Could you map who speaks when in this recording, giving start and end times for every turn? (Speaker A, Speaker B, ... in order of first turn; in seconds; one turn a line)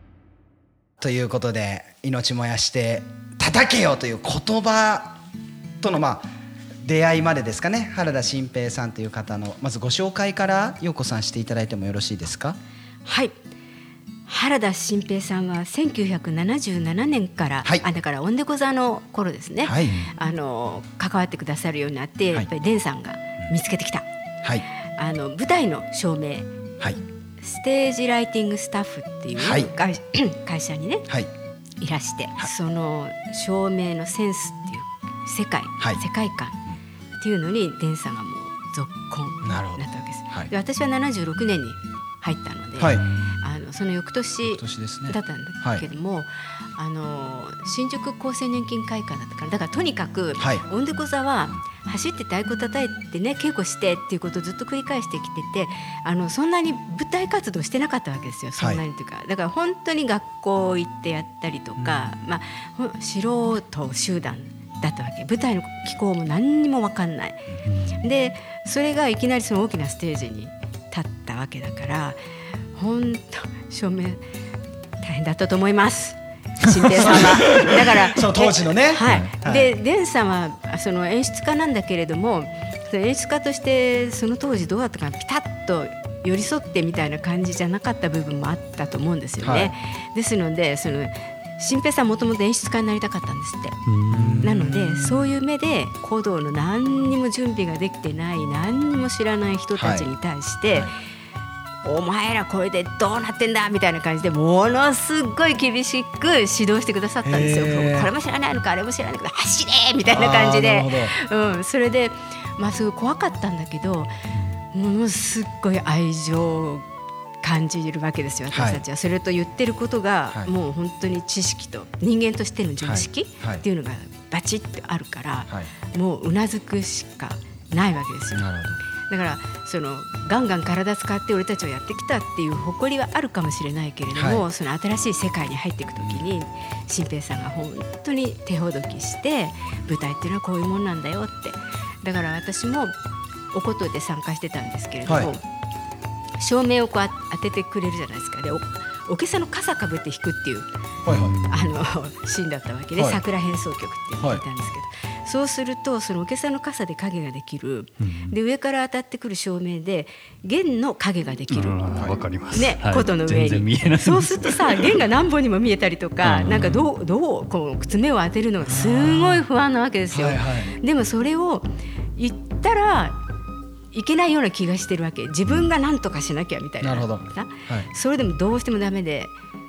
Speaker A: 1.0-5.2
Speaker A: 5.8-6.3
Speaker A: 6.8-12.6
Speaker B: 13.1-13.3
Speaker B: 14.3-24.1
Speaker A: 19.6-20.1
Speaker B: 25.0-26.5
Speaker B: 27.4-31.1
Speaker A: 29.4-29.7
Speaker B: 31.8-36.6
Speaker B: 37.2-67.5
Speaker A: 39.4-40.5
Speaker A: 42.8-43.0
Speaker A: 44.5-45.8
Speaker A: 50.4-50.6
Speaker C: 67.7-68.0
Speaker B: 68.0-72.2
Speaker B: 72.8-74.2
Speaker B: 75.0-93.8
Speaker A: 77.0-79.7
Speaker C: 79.0-79.3
Speaker A: 89.4-89.7
Speaker C: 93.9-94.5
Speaker A: 94.1-95.3
Speaker B: 94.4-100.9
Speaker A: 99.8-100.1
Speaker B: 101.8-114.1
Speaker A: 107.2-108.1
Speaker A: 110.1-111.1
Speaker B: 114.7-116.9
Speaker B: 117.4-128.5
Speaker A: 118.5-118.8
Speaker A: 122.8-123.6
Speaker A: 128.3-128.8
Speaker B: 129.1-142.9
Speaker A: 134.1-134.4
Speaker A: 136.0-136.2
Speaker B: 143.5-145.4
Speaker A: 145.1-145.3
Speaker B: 146.4-150.7
Speaker A: 151.1-151.4
Speaker C: 151.1-151.8
Speaker B: 151.5-161.8
Speaker C: 158.0-158.3
Speaker C: 161.5-164.9
Speaker B: 162.5-173.2
Speaker C: 166.2-166.9
Speaker A: 168.6-169.5
Speaker A: 170.1-170.8
Speaker B: 173.9-179.3
Speaker A: 176.8-177.9